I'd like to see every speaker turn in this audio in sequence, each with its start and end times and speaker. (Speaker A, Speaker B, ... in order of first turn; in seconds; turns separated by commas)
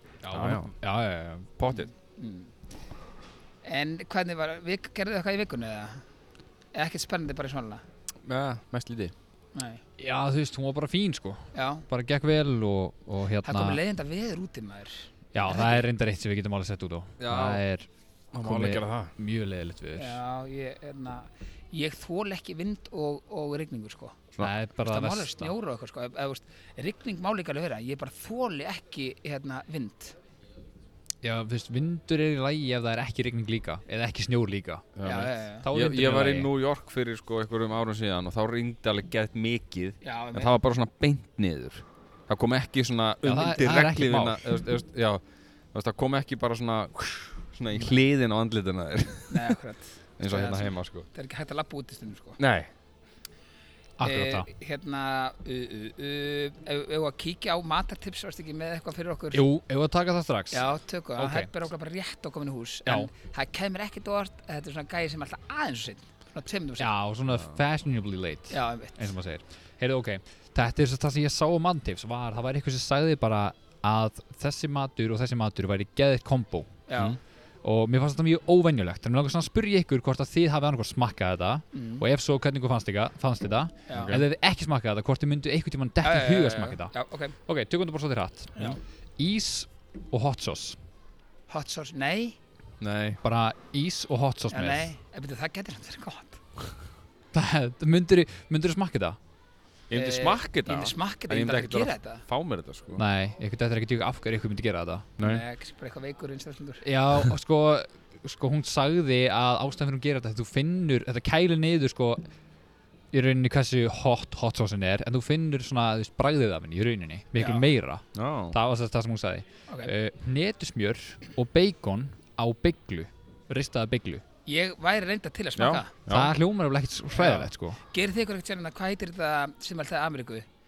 Speaker A: 0.2-1.5, Speaker B: 0.3-0.7, Speaker B: 1.6-1.9, Speaker C: 2.0-2.5, Speaker C: 3.6-6.0, Speaker C: 6.7-7.8, Speaker B: 8.2-9.1, Speaker C: 9.5-9.8, Speaker A: 10.0-13.8, Speaker C: 11.5-11.8, Speaker C: 13.4-15.8, Speaker A: 15.3-20.2, Speaker B: 17.2-17.6, Speaker B: 18.3-19.1, Speaker C: 19.9-24.2, Speaker A: 24.4-25.5, Speaker C: 24.9-30.1, Speaker A: 31.2-35.0, Speaker B: 35.0-45.2, Speaker C: 35.0-35.6, Speaker A: 35.6-36.5, Speaker C: 40.0-40.5, Speaker A: 43.2-44.4, Speaker B: 45.7-49.6, Speaker C: 49.3-52.4, Speaker B: 50.2-51.1, Speaker B: 52.4-52.7, Speaker A: 54.0-54.5, Speaker C: 54.0-59.4, Speaker A: 59.3-60.6, Speaker C: 60.5-66.9, Speaker A: 61.1-61.5, Speaker A: 66.8-76.8, Speaker C: 68.5-69.1, Speaker C: 76.9-77.2, Speaker A: 77.6-90.8, Speaker C: 81.7-82.0, Speaker C: 83.9-84.1, Speaker B: 83.9-84.2, Speaker C: 86.0-87.3, Speaker C: 91.5-92.4, Speaker B: 92.8-93.2, Speaker A: 93.2-94.9, Speaker C: 94.5-96.4, Speaker A: 97.3-99.2, Speaker B: 99.9-103.0, Speaker C: 99.9-102.2, Speaker A: 103.0-105.1, Speaker B: 105.2-105.4, Speaker C: 105.2-106.8, Speaker A: 106.8-112.2, Speaker A: 113.1-124.2, Speaker C: 117.3-117.7, Speaker B: 118.1-118.6, Speaker C: 124.5-125.9, Speaker B: 125.6-126.3, Speaker A: 126.1-127.8, Speaker C: 127.2-130.4